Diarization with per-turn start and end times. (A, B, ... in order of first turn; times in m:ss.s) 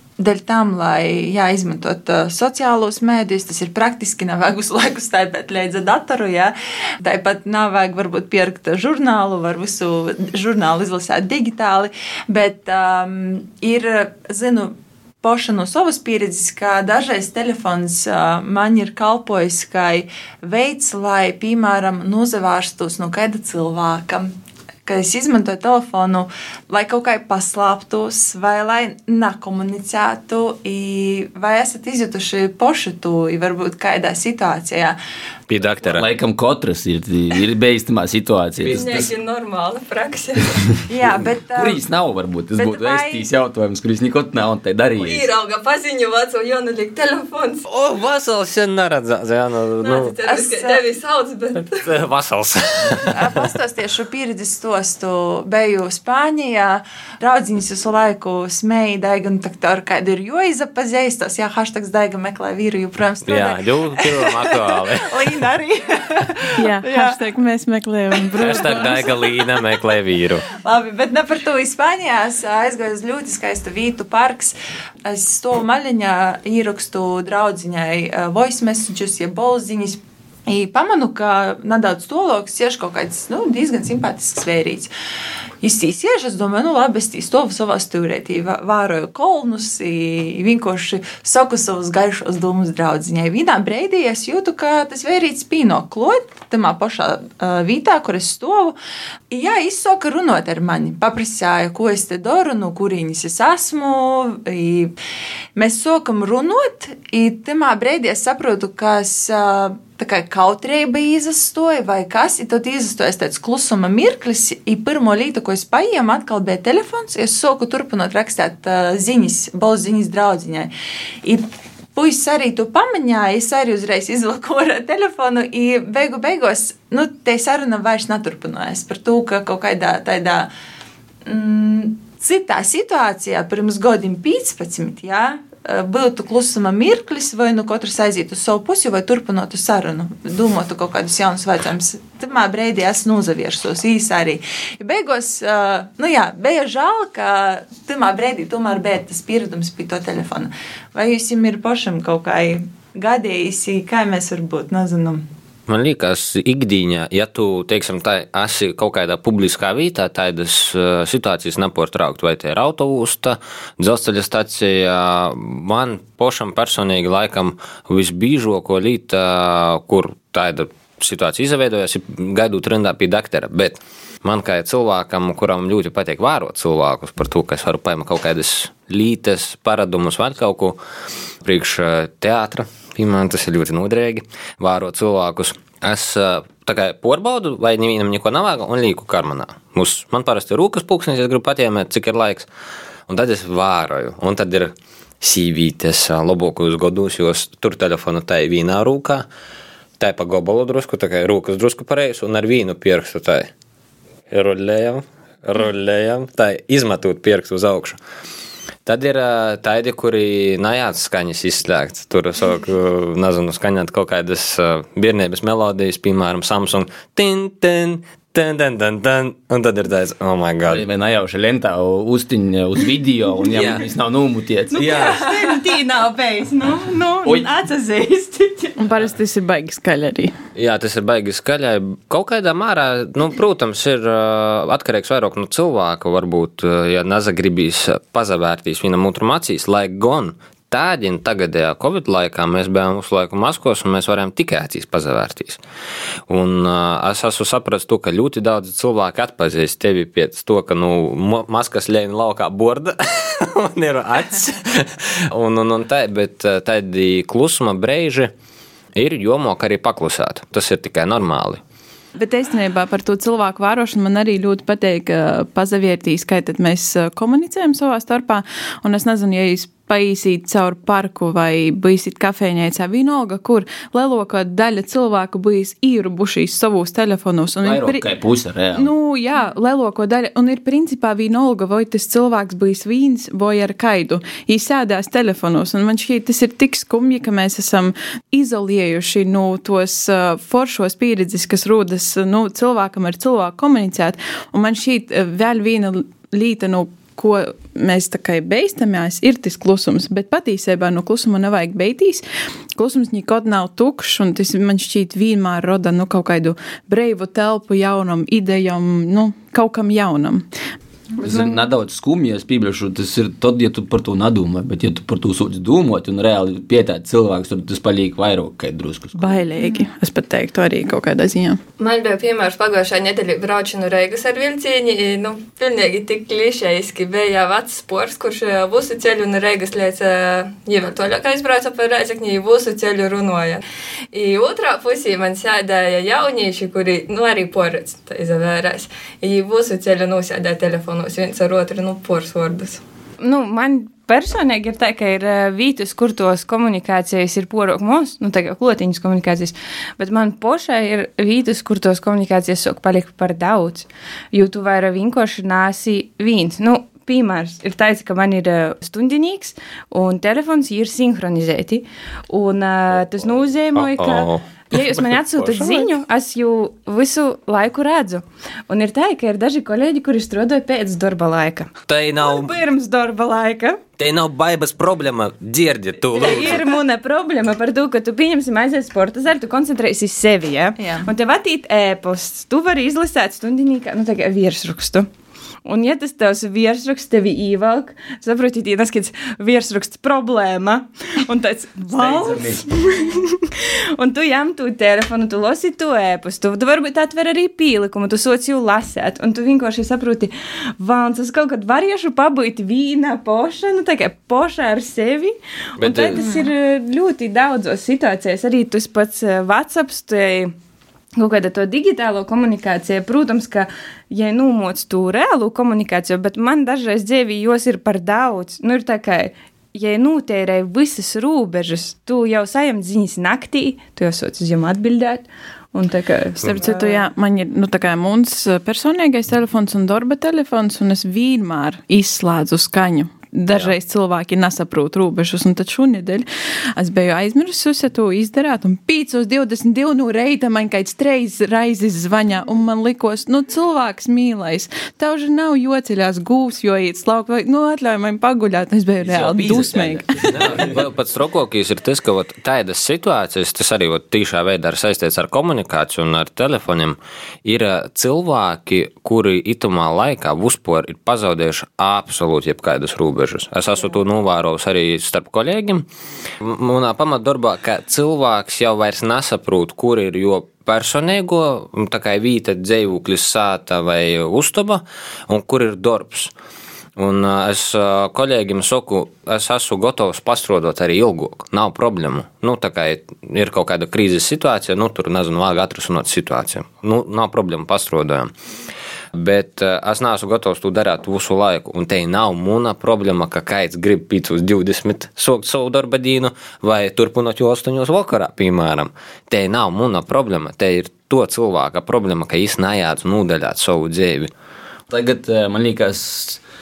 0:00.2-0:24.3 A
0:24.8-0:35.0 A
0:35.5-0:36.1 B
0:35.8-0:39.1 C
0:38.7-0:40.6 D
0:40.9-0:41.8 A
0:41.5-0:45.3 C
0:42.6-0:43.3 A
0:45.0-0:47.6 D
0:47.7-0:50.2 B
0:49.8-0:51.9 D
0:50.2-0:50.8 A
0:51.8-0:53.4 B
0:53.1-1:07.2 A
1:03.2-1:05.2 B
1:06.6-1:09.1 E
1:08.2-1:09.8 A
1:08.4-1:10.4 B
1:10.6-1:14.5 A
1:15.0-1:24.9 A
1:25.6-1:38.8 A
1:39.3-1:44.9 A
1:45.6-2:00.7 A
2:01.2-2:10.5 A
2:11.3-2:35.2 A
2:35.7-3:00.8 B
3:01.4-3:12.5 B
3:13.1-3:19.3 B
3:20.0-3:23.5 B
3:24.3-3:28.0 B
3:28.9-3:40.8 B
3:40.7-3:45.0 C
3:43.5-3:43.9 B
3:44.7-3:48.8 F
3:44.8-3:45.2 B
3:48.8-3:50.3 E
3:50.6-4:05.6 B
4:06.3-4:18.3 B
4:19.0-4:21.6 B
4:22.2-4:38.0 E
4:37.6-4:38.9 C
4:38.8-5:02.2 E
5:02.8-5:10.5 E
5:11.2-5:19.4 C
5:11.2-5:11.5 E
5:19.2-5:21.6 E
5:21.8-5:42.8 D
5:43.2-6:13.8 F
6:03.8-6:05.9 B
6:11.9-6:12.6 B
6:14.0-6:16.6 B
6:16.1-6:25.1 F
6:20.8-6:21.1 A
6:25.6-6:50.5 F
6:32.0-6:32.7 C
6:45.8-6:46.2 B
6:46.2-6:46.5 A
6:51.2-7:07.0 F
7:06.4-7:16.2 E
7:16.8-7:30.6 E
7:29.0-7:30.9 C
7:30.3-7:45.9 B
7:46.4-7:56.3 B
7:57.0-8:08.3 B
8:09.2-8:24.3 B
8:24.9-8:26.4 C